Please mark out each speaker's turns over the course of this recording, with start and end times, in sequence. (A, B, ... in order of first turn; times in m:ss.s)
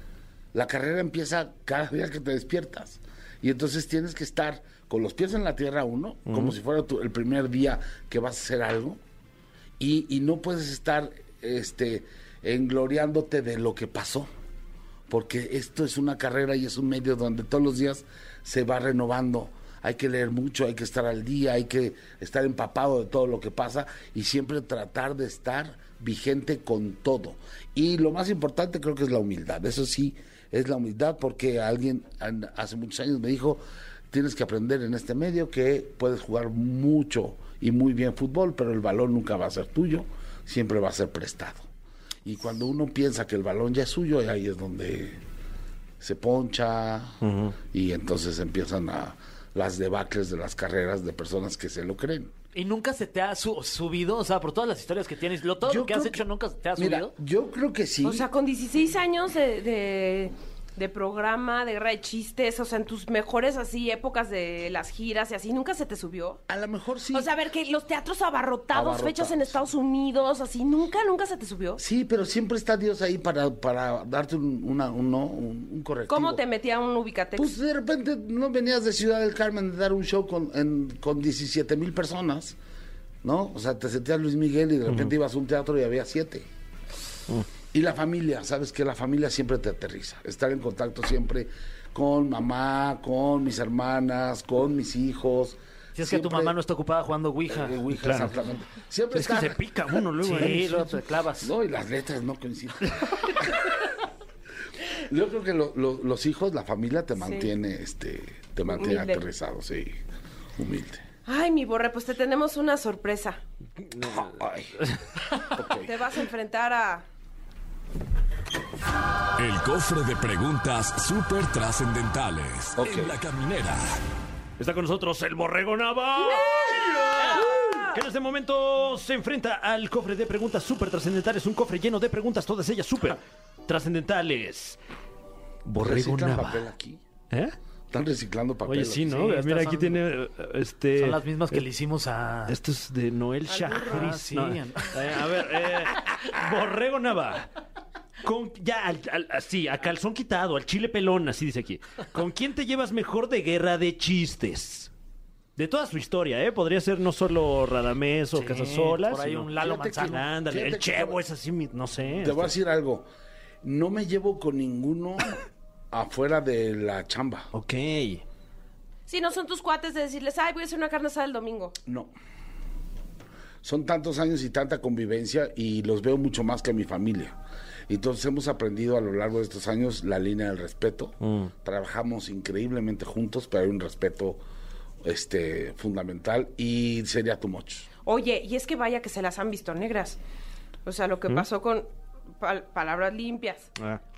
0:00.5-0:09.0 A
0:06.3-0:06.6 B
0:09.8-0:14.3 A
0:15.1-0:41.7 A
0:42.2-0:45.2 A
0:46.0-0:52.3 A
0:47.2-0:47.5 B
0:52.6-0:57.1 C
0:55.6-0:56.2 A
0:56.8-0:58.3 A
0:58.0-1:06.4 D
1:06.5-1:07.3 A
1:07.1-1:11.8 D
1:08.7-1:09.7 A
1:11.8-1:16.4 A
1:16.1-1:17.5 D
1:17.4-1:22.6 A
1:23.2-1:26.5 A
1:27.7-1:36.6 A
1:36.0-1:37.8 C
1:37.5-1:40.5 A
1:38.0-1:38.3 B
1:39.1-1:41.0 B
1:40.2-1:41.5 C
1:41.4-1:43.7 A
1:44.9-1:50.0 A
1:47.2-1:47.5 D
1:48.7-1:49.2 D
1:50.6-1:51.0 A
1:51.3-1:53.4 D
1:53.8-1:54.3 B
1:54.0-1:54.8 A
1:55.5-1:56.0 A
1:55.8-1:57.0 D
1:59.4-2:04.0 E
2:02.8-2:03.2 A
2:04.6-2:14.8 B
2:06.2-2:08.0 D
2:15.6-2:16.6 B
2:15.8-2:17.0 A
2:17.3-2:17.6 B
2:17.9-2:19.4 A
2:18.7-2:21.6 B
2:19.1-2:20.0 C
2:21.0-2:22.6 C
2:22.5-2:27.5 B
2:23.5-2:25.4 C
2:28.2-2:34.9 B
2:35.6-2:42.5 B
2:38.4-2:40.3 C
2:39.6-2:41.2 A
2:42.2-2:43.1 A
2:43.6-2:47.5 A
2:47.5-2:48.2 B
2:49.1-2:51.8 D
2:51.9-2:52.1 A
2:53.6-2:57.4 A
2:57.9-3:04.4 A
3:01.2-3:01.5 B
3:05.0-3:07.9 A
3:08.0-3:10.2 D
3:10.8-3:11.9 D
3:12.4-3:13.7 D